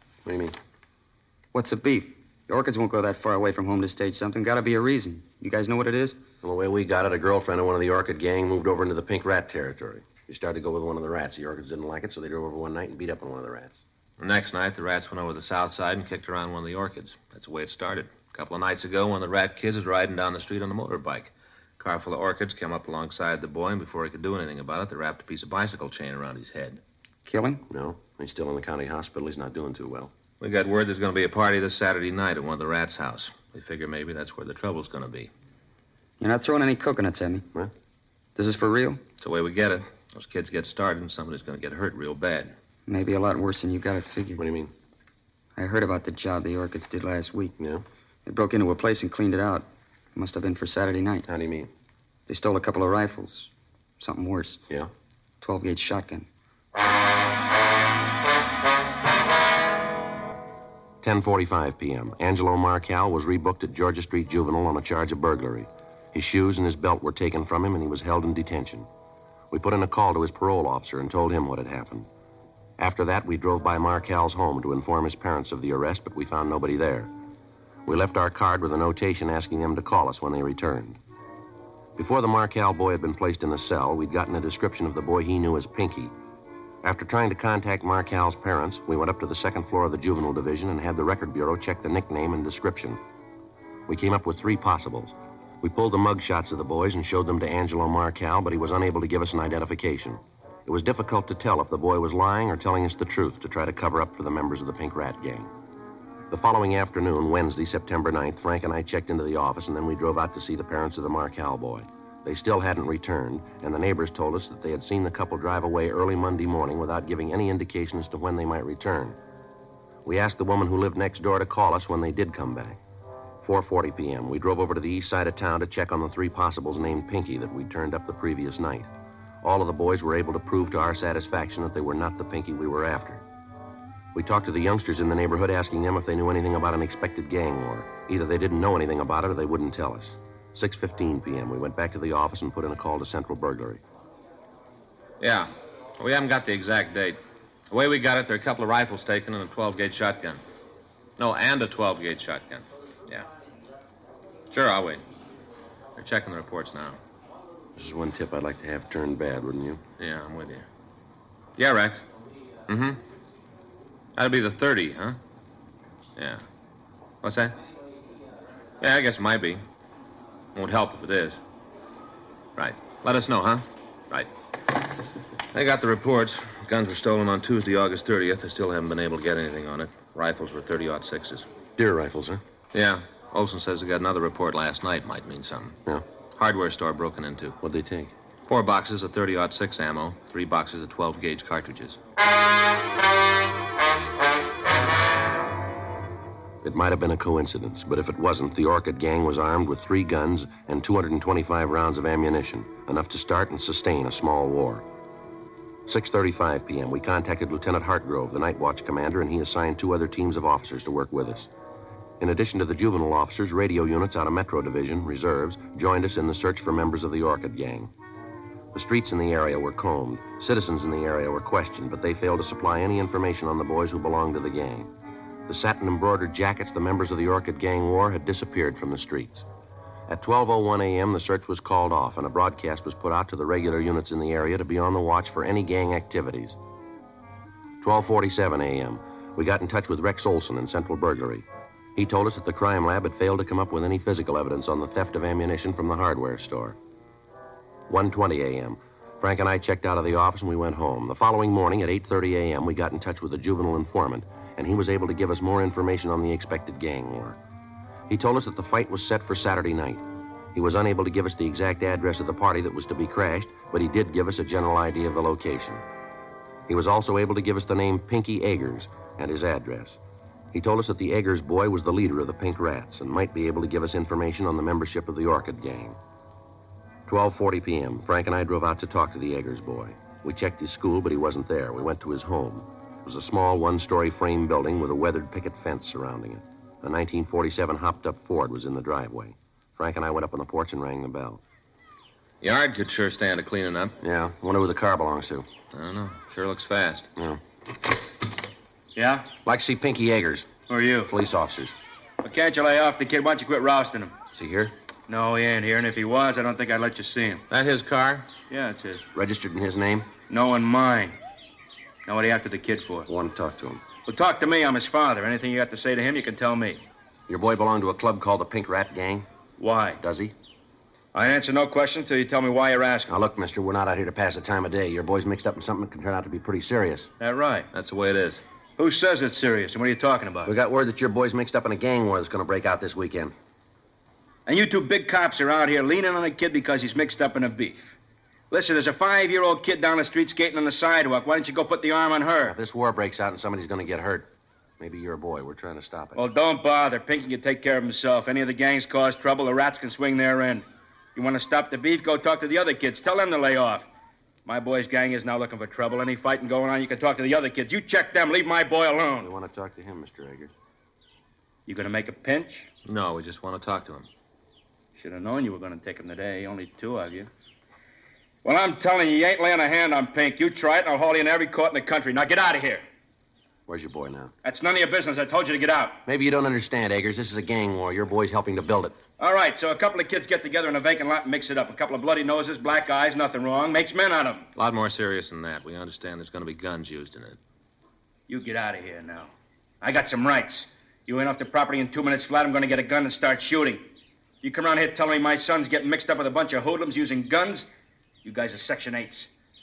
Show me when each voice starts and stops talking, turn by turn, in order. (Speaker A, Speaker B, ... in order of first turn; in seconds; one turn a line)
Speaker A: 0.2-0.6
Speaker B: 1.5-6.2
Speaker A: 6.4-13.8
Speaker C: 14.2-26.8
Speaker B: 27.2-27.6
Speaker A: 27.7-30.1
Speaker C: 30.4-35.3
Speaker B: 36.2-37.5
Speaker B: 38.4-39.0
Speaker C: 39.2-42.5
Speaker B: 42.9-44.4
Speaker A: 44.4-44.7
Speaker B: 45.5-47.5
Speaker A: 47.6-47.8
Speaker B: 48.2-51.2
Speaker A: 51.3-51.7
Speaker B: 52.3-54.6
Speaker B: 55.4-56.3
Speaker A: 61.0-68.9
Speaker A: 69.5-72.1
Speaker A: 72.8-77.1
Speaker A: 77.8-81.0
Speaker A: 82.0-86.1
Speaker A: 86.8-93.0
Speaker A: 93.9-105.5
Speaker A: 106.3-119.2
Speaker A: 120.0-122.8
Speaker A: 123.4-128.9
Speaker A: 129.4-133.2
Speaker A: 134.1-143.8
Speaker C: 145.2-147.2
Speaker C: 147.7-150.4
Speaker C: 151.2-153.3
Speaker C: 154.5-155.0
Speaker C: 155.9-157.0
Speaker A: 157.8-159.8
Speaker C: 160.0-160.7
Speaker C: 161.6-162.0
Speaker C: 162.7-163.0
Speaker C: 164.2-165.2
Speaker C: 166.2-166.4
Speaker C: 167.2-167.6
Speaker C: 168.8-169.6
Speaker C: 170.5-171.4
Speaker C: 172.6-174.3
Speaker C: 175.5-181.5
Speaker A: 181.8-182.4
Speaker C: 182.7-185.8
Speaker C: 186.3-187.6
Speaker A: 187.6-188.1
Speaker C: 188.4-192.0
Speaker A: 196.6-204.8
Speaker A: 205.8-211.5
Speaker A: 212.2-217.9
Speaker A: 218.7-224.9
Speaker A: 225.5-229.4
Speaker A: 230.1-236.6
Speaker A: 237.8-246.8
Speaker A: 247.9-257.4
Speaker A: 258.1-265.8
Speaker A: 266.7-270.0
Speaker A: 270.5-276.0
Speaker A: 277.1-291.4
Speaker C: 292.4-293.9
Speaker A: 294.0-295.5
Speaker C: 295.7-297.1
Speaker A: 297.1-297.4
Speaker D: 298.9-299.3
Speaker A: 299.4-300.5
Speaker D: 300.7-301.1
Speaker A: 301.1-301.8
Speaker D: 302.2-304.1
Speaker A: 304.3-304.8
Speaker D: 305.1-307.4
Speaker C: 307.5-308.3
Speaker D: 308.5-309.0
Speaker A: 309.1-310.1
Speaker D: 310.3-311.2
Speaker D: 312.1-313.1
Speaker A: 313.1-313.9
Speaker D: 314.0-316.8
Speaker A: 317.3-319.3
Speaker D: 319.6-320.0
Speaker A: 320.0-320.3
Speaker D: 321.1-323.2
Speaker A: 323.1-327.1
Speaker D: 327.2-327.7
Speaker C: 327.7-328.4
Speaker D: 328.8-330.5
Speaker A: 330.4-333.3
Speaker D: 334.4-337.9
Speaker D: 338.5-342.6
Speaker A: 342.4-346.3
Speaker D: 346.1-353.9
Speaker D: 354.4-359.3
Speaker A: 359.2-360.5
Speaker D: 361.6-362.7
Speaker C: 362.8-364.1
Speaker D: 364.9-367.3
Speaker D: 368.4-372.8
Speaker A: 373.7-374.3
Speaker D: 374.4-376.0
Speaker A: 376.1-379.0
Speaker D: 379.2-384.5
Speaker C: 384.6-387.4
Speaker D: 388.3-393.9
Speaker D: 394.4-397.7
Speaker D: 398.2-399.3